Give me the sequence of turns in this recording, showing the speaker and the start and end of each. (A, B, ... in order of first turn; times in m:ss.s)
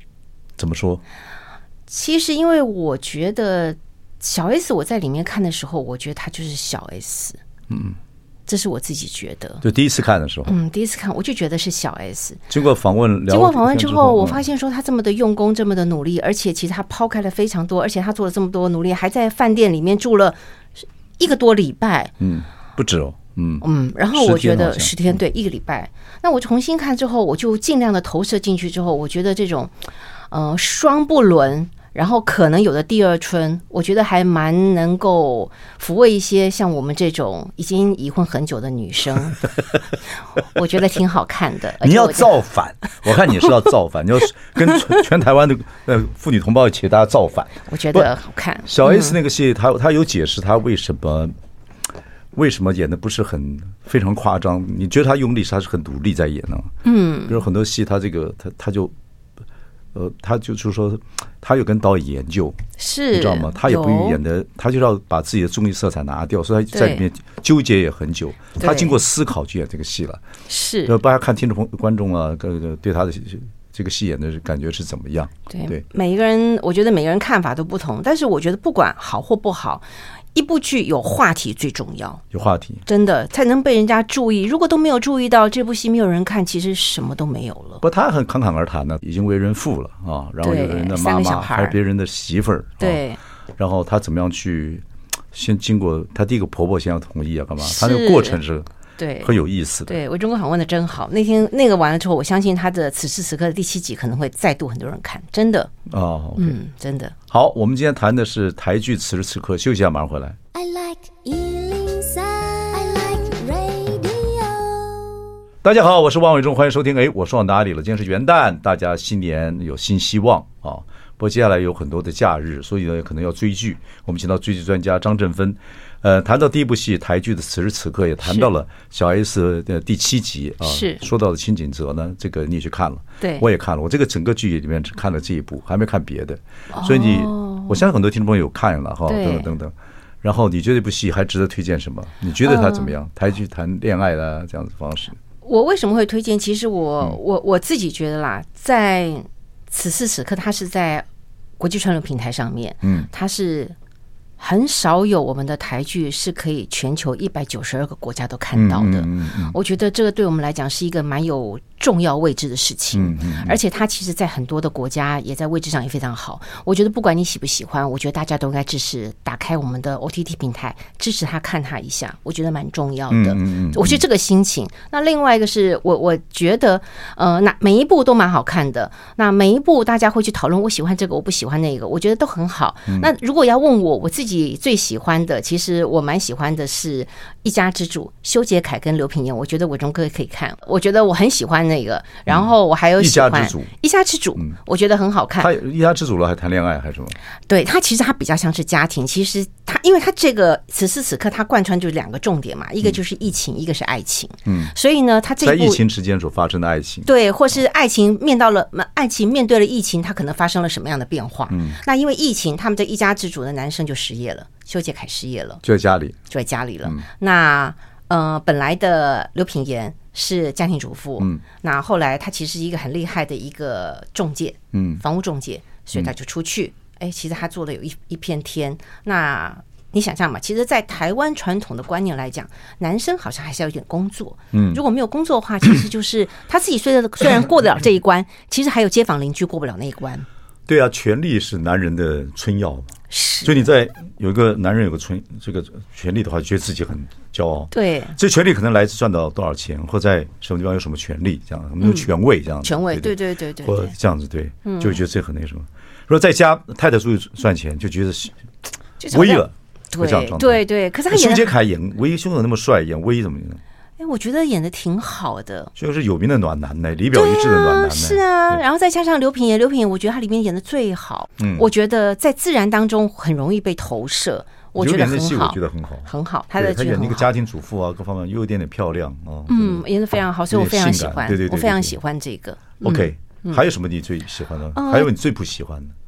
0:00.6-0:01.0 A
0:01.9-0:07.4 B
0:07.7-0:08.0 A
0:08.5-0:09.6 B
0:09.6-0:10.6 A
0:10.5-0:12.4 B
0:12.5-0:14.4 A
0:13.3-0:22.1 B
0:22.2-0:25.0 A
0:23.6-0:29.7 B
0:30.3-0:39.5 B
0:40.4-0:42.4 B
0:41.8-0:48.1 A
0:47.7-0:49.2 B
0:48.6-0:51.3 A
0:52.3-0:56.7 A
0:56.8-0:57.4 B
0:57.3-0:58.9 A
0:59.9-1:02.6 A
1:02.8-1:04.2 B
1:03.1-1:10.2 A
1:06.7-1:07.0 B
1:08.6-1:09.0 B
1:10.5-1:11.0 B
1:10.9-1:15.8 A
1:15.5-1:22.2 B
1:22.3-1:22.8 A
1:22.9-1:27.8 B
1:27.8-1:33.0 A
1:30.4-1:31.8 B
1:32.8-1:33.2 B
1:33.6-1:38.7 A
1:37.6-1:38.4 B
1:39.0-1:39.3 B
1:39.2-1:40.0 A
1:39.9-1:45.7 B
1:45.9-1:46.6 A
1:46.4-1:47.2 B
1:47.3-1:50.4 A
1:50.6-1:54.9 C
1:51.1-1:51.5 B
1:52.6-1:54.3 B
1:55.6-2:25.2 A
2:10.6-2:11.0 B
2:13.2-2:13.5 B
2:16.7-2:17.8 B
2:19.1-2:19.5 B
2:22.4-2:22.9 B
2:25.4-2:31.1 B
2:31.6-2:33.8 B
2:32.8-2:33.1 A
2:34.4-3:15.5 B
2:38.5-2:39.6 A
2:42.9-2:43.6 A
2:53.1-2:54.0 A
3:12.3-3:13.7 A
3:15.4-3:17.2 A
3:17.5-3:25.8 B
3:24.5-3:24.7 A
3:25.4-3:27.1 A
3:27.0-3:35.6 B
3:31.5-3:31.8 A
3:35.6-3:36.2 A
3:36.3-4:00.3 B
3:44.7-3:45.0 A
3:54.5-3:54.8 A
4:00.7-4:18.4 A
4:03.1-4:03.6 B
4:07.7-4:08.2 B
4:11.8-4:12.1 B
4:12.6-4:13.9 B
4:14.6-4:15.0 B
4:19.0-4:21.5 B
4:19.1-4:23.6 A
4:24.0-4:25.7 B
4:25.8-4:28.6 A
4:27.1-4:37.3 B
4:31.4-4:31.7 A
4:34.8-4:39.8 A
4:39.5-4:43.6 B
4:40.5-4:42.0 A
4:42.8-4:45.9 A
4:44.8-4:45.1 B